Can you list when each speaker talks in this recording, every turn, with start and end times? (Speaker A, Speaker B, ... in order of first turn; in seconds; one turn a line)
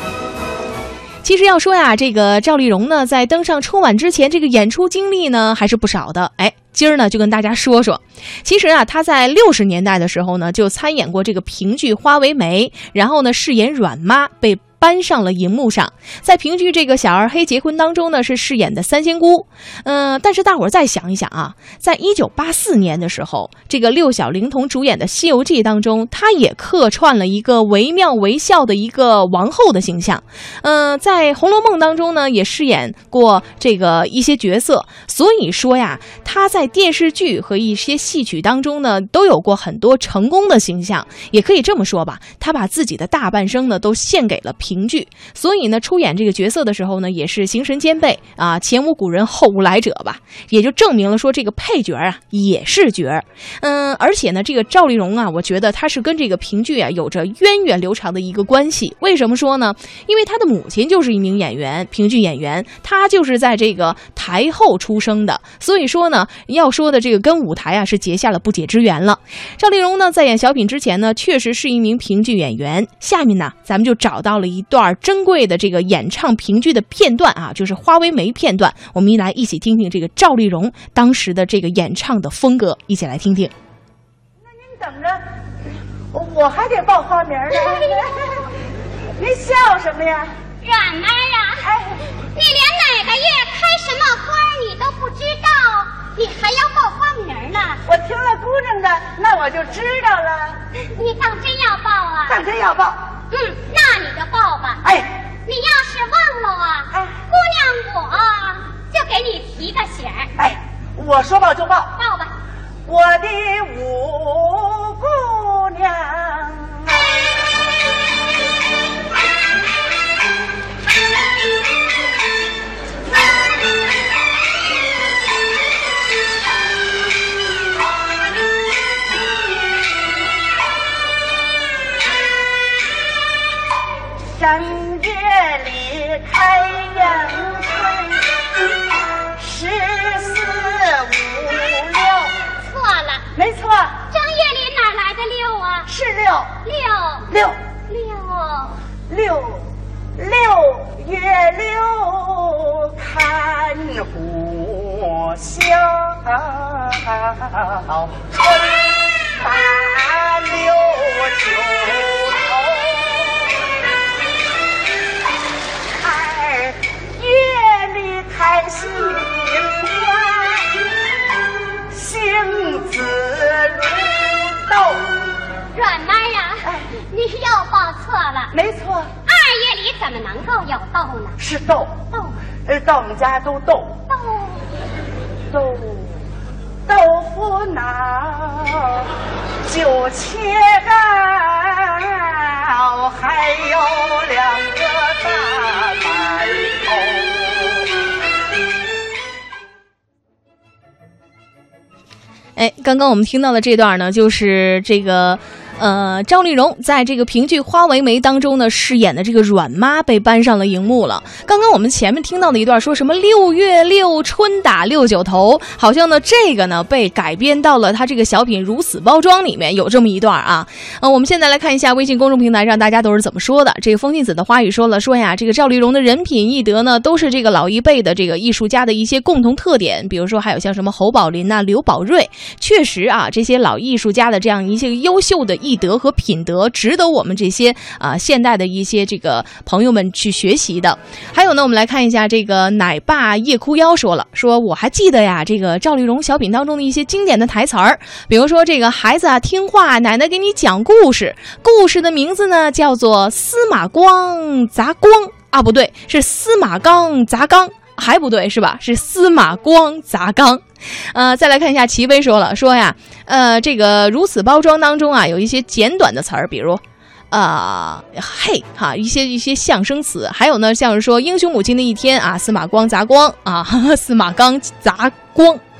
Speaker A: 1.2-83.5
Speaker B: 84.4-85.2
Speaker B: 86.1-88.5
Speaker B: 89.2-90.3
Speaker C: 90.6-91.5
Speaker B: 91.6-92.0
Speaker C: 92.4-97.7
Speaker B: 97.9-100.6
Speaker C: 101.0-102.3
Speaker B: 102.2-103.1
Speaker C: 103.3-104.7
Speaker B: 104.8-105.2
Speaker C: 105.5-106.8
Speaker B: 106.9-107.2
Speaker C: 107.3-110.2
Speaker B: 110.4-112.0
Speaker B: 112.9-117.3
Speaker B: 134.3-138.6
Speaker B: 139.4-142.4
Speaker C: 142.7-143.2
Speaker B: 143.3-144.1
Speaker C: 144.1-145.7
Speaker B: 145.8-146.6
Speaker C: 146.7-147.1
Speaker B: 147.3-147.6
Speaker C: 148.0-148.7
Speaker B: 149.1-163.6
Speaker B: 166.0-170.8
Speaker B: 171.9-175.1
Speaker C: 175.8-176.4
Speaker C: 177.2-178.4
Speaker B: 178.5-179.1
Speaker C: 179.3-181.2
Speaker B: 181.4-182.1
Speaker B: 182.6-184.0
Speaker B: 185.5-186.2
Speaker B: 186.9-189.1
Speaker B: 189.6-197.9
Speaker A: 202.6-275.6